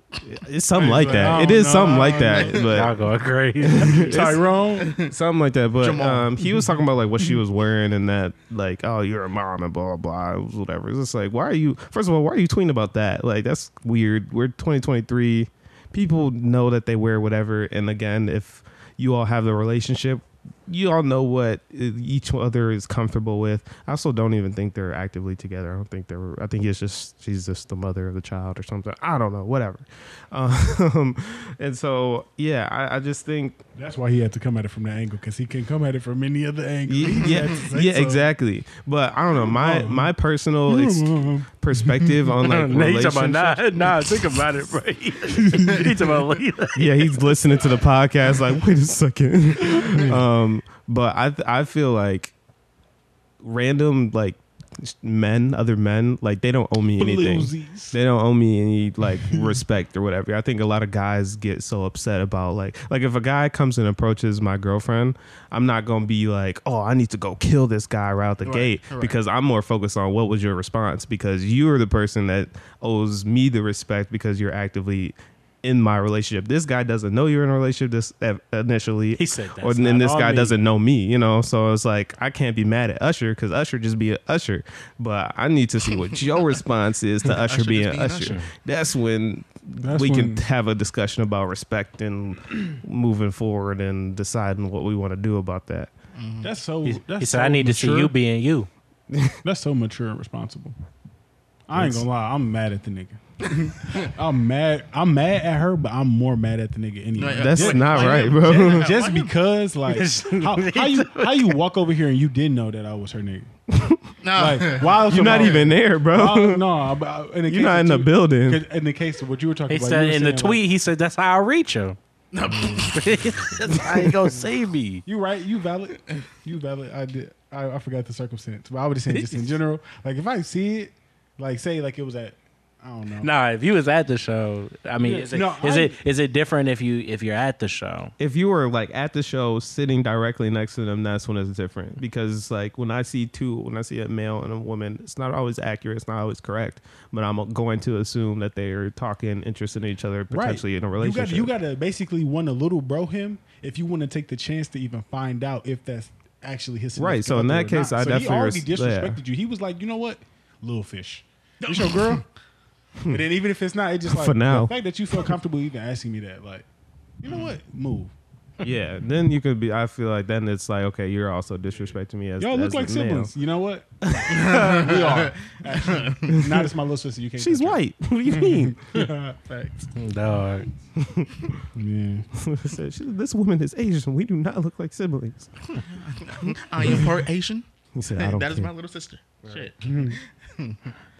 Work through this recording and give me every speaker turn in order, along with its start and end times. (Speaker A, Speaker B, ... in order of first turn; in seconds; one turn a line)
Speaker A: 0.2-3.0
Speaker B: 0.7-2.9
Speaker C: 2.4-2.6
Speaker D: 2.7-4.2
Speaker A: 3.6-4.4
Speaker B: 3.8-5.0
Speaker C: 4.8-5.1
Speaker A: 5.0-33.6
Speaker C: 5.8-6.3
Speaker B: 33.8-38.3
Speaker A: 36.9-44.2
Speaker B: 39.4-40.1
Speaker B: 40.7-42.3
Speaker D: 42.4-47.1
Speaker B: 45.5-45.9
Speaker A: 46.7-52.3
Speaker B: 49.6-50.2
Speaker A: 53.4-95.9
Speaker B: 57.0-58.0
Speaker B: 59.3-59.5
Speaker C: 68.4-69.2
Speaker D: 79.1-80.6
Speaker C: 87.3-88.4
Speaker B: 89.8-90.5
Speaker C: 96.1-96.5
Speaker B: 96.4-98.1
Speaker D: 96.8-98.7
Speaker A: 99.1-99.4
Speaker B: 99.4-100.7
Speaker B: 101.7-113.5
Speaker A: 101.7-102.0
Speaker C: 107.2-109.3
Speaker A: 107.3-108.9
Speaker D: 109.9-111.5
Speaker A: 113.7-114.0
Speaker C: 114.2-115.7
Speaker B: 114.3-120.6
Speaker A: 115.0-116.7
Speaker A: 117.5-118.6
Speaker D: 119.7-122.0
Speaker C: 122.3-123.1
Speaker B: 122.5-123.0
Speaker D: 122.9-125.0
Speaker B: 125.0-133.3
Speaker D: 129.1-129.5
Speaker D: 133.2-138.1
Speaker B: 135.0-136.0
Speaker A: 138.2-151.5
Speaker B: 150.3-162.2
Speaker A: 156.9-159.2
Speaker C: 161.7-162.2
Speaker B: 163.1-166.7
Speaker A: 164.1-164.7
Speaker B: 167.2-168.1
Speaker A: 168.6-173.3
Speaker B: 172.4-179.9
Speaker C: 174.3-176.3
Speaker A: 176.3-176.7
Speaker A: 177.4-179.1
Speaker D: 179.9-180.7
Speaker A: 181.0-181.6
Speaker B: 181.7-182.3
Speaker A: 182.4-185.8
Speaker C: 185.7-190.9
Speaker A: 186.3-187.2
Speaker A: 187.9-188.7
Speaker A: 189.4-189.7
Speaker B: 189.8-190.2